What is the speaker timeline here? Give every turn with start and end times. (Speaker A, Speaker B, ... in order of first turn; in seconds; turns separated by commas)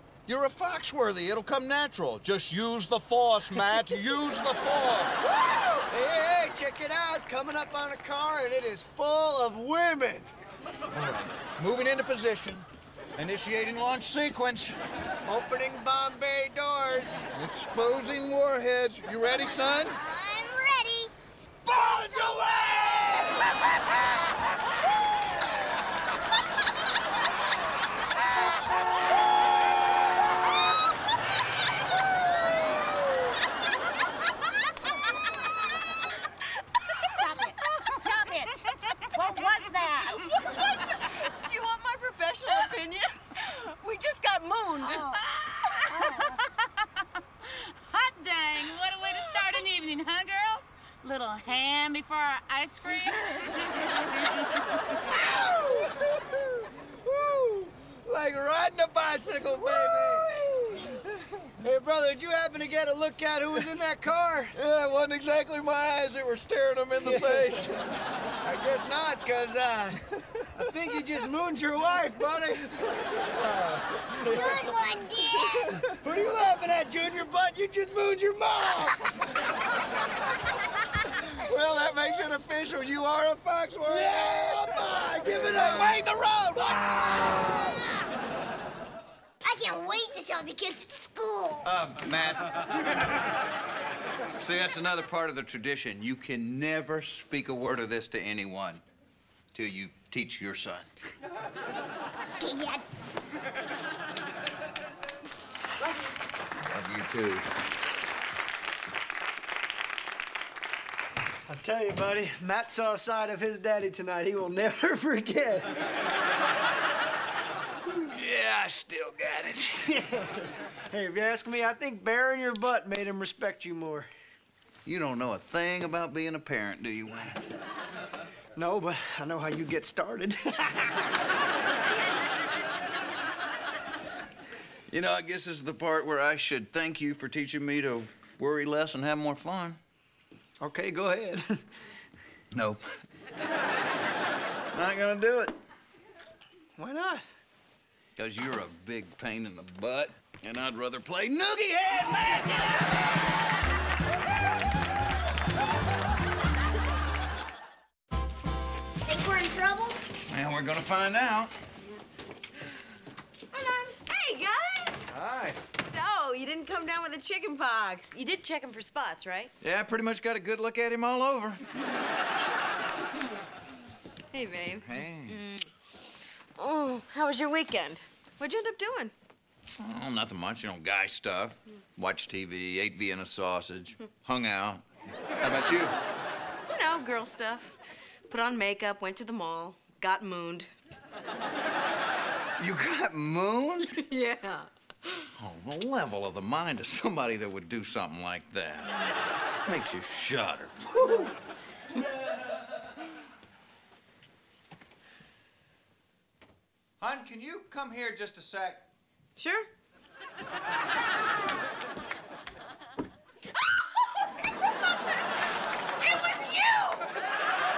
Speaker A: 0.3-5.2, Speaker B: 5.2-10.3, Speaker A: 10.9-12.7, Speaker A: 13.2-14.8, Speaker B: 15.2-17.3, Speaker A: 17.3-20.0, Speaker C: 19.9-21.1, Speaker B: 21.6-23.5, Speaker D: 37.0-38.6, Speaker E: 37.1-38.0, Speaker E: 39.1-40.5, Speaker D: 39.2-39.8, Speaker F: 40.1-45.2, Speaker E: 44.9-46.6, Speaker E: 47.4-54.1, Speaker B: 55.2-55.9, Speaker A: 57.0-60.4, Speaker B: 59.3-61.0, Speaker B: 61.6-64.5, Speaker A: 64.5-67.8, Speaker B: 67.0-67.5, Speaker B: 68.4-73.4, Speaker B: 74.0-74.8, Speaker C: 74.2-75.8, Speaker B: 75.9-79.0, Speaker A: 81.3-84.8, Speaker B: 83.8-86.1, Speaker A: 85.3-87.9, Speaker C: 89.4-91.7, Speaker A: 91.6-92.5, Speaker A: 94.3-98.8, Speaker A: 99.5-101.0, Speaker C: 102.4-102.8, Speaker A: 106.6-107.5, Speaker B: 111.5-115.7, Speaker A: 117.9-119.9, Speaker B: 119.9-124.1, Speaker A: 124.8-127.4, Speaker B: 128.6-131.1, Speaker A: 134.9-139.8, Speaker B: 140.6-141.6, Speaker A: 142.5-142.8, Speaker A: 144.7-145.5, Speaker B: 146.8-147.2, Speaker A: 148.2-152.9, Speaker C: 159.0-160.0, Speaker A: 160.3-161.5, Speaker F: 163.5-165.1, Speaker A: 165.1-165.6, Speaker F: 165.8-169.5, Speaker A: 169.6-171.6, Speaker F: 174.3-175.7, Speaker A: 174.8-175.4, Speaker F: 176.6-179.1, Speaker A: 179.8-184.8, Speaker A: 185.3-185.9, Speaker F: 186.7-187.7, Speaker F: 188.3-190.7, Speaker A: 192.6-194.0, Speaker F: 194.0-195.3, Speaker A: 195.4-199.0, Speaker A: 199.7-201.3, Speaker A: 207.0-208.9, Speaker F: 209.4-209.7, Speaker F: 216.0-217.0